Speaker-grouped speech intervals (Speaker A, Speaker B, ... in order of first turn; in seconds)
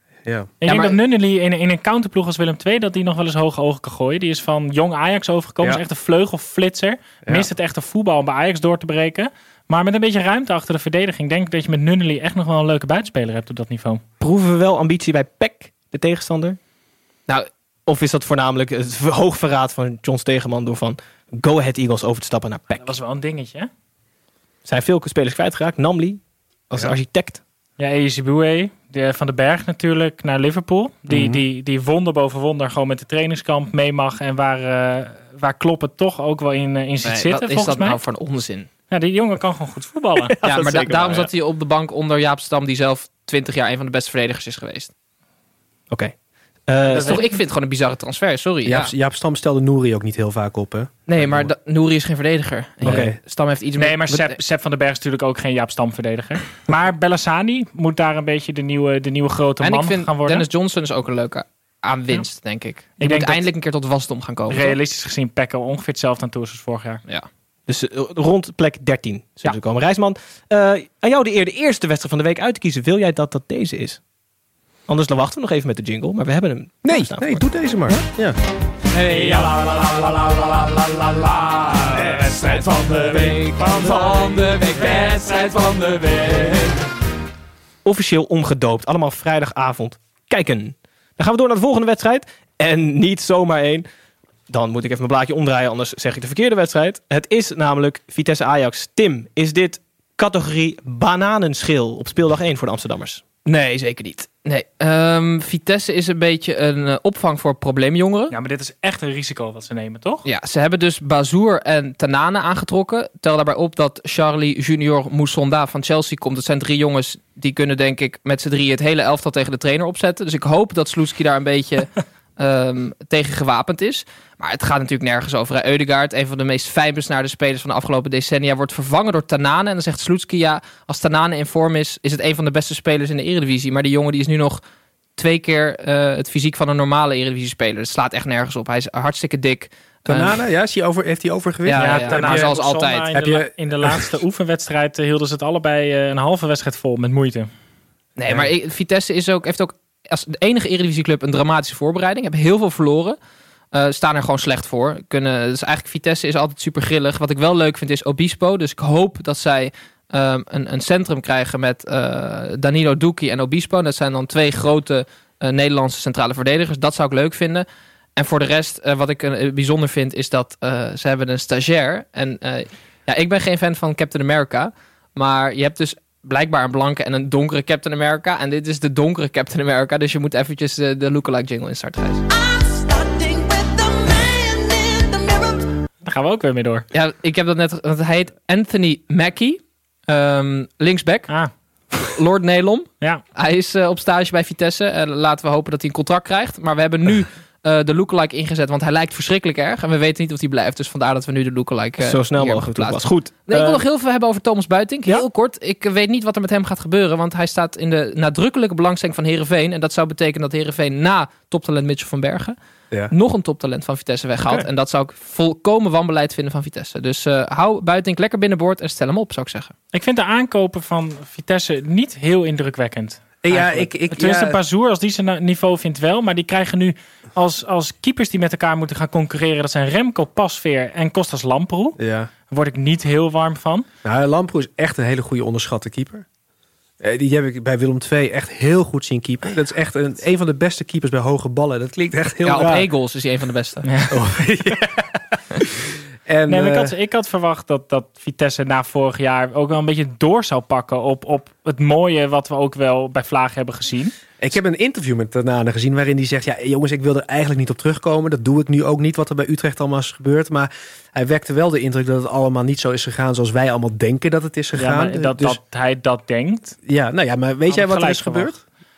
Speaker A: 0.3-0.5, 31.1-31.4, 48.6-51.5, 52.8-53.2, 76.8-78.4, 82.0-82.3, 140.1-142.5, 143.1-144.2, 223.4-224.6, 232.0-232.3, 234.0-236.3, 237.0-242.9, 244.1-245.2, 246.3-246.9, 254.4-265.6, 266.9-268.6
Speaker B: 0.6-14.0, 22.8-23.7, 27.8-38.0, 38.9-40.3, 46.9-47.4, 53.8-60.5, 63.0-63.5, 64.5-67.0, 108.3-110.2, 141.8-147.5, 186.0-186.8, 219.9-233.8, 243.8-244.2, 246.5-254.1, 264.8-266.8, 267.7-268.5
Speaker C: 0.7-1.0, 37.0-38.7, 40.4-44.9, 46.9-48.9, 51.1-54.4, 59.6-64.8, 103.5-108.3, 110.2-134.6, 135.2-140.4, 141.7-143.1, 148.2-153.2, 153.7-182.2, 186.9-191.3, 191.9-212.6, 213.1-219.7, 242.4-243.9
Speaker D: 14.2-16.6, 17.9-22.9, 24.6-27.4, 40.3-41.3, 46.7-47.2, 52.9-53.1, 67.7-74.0, 74.9-78.0, 79.1-79.5, 81.5-86.6, 87.8-93.9, 94.5-103.2, 202.0-203.8
Speaker E: 182.7-185.4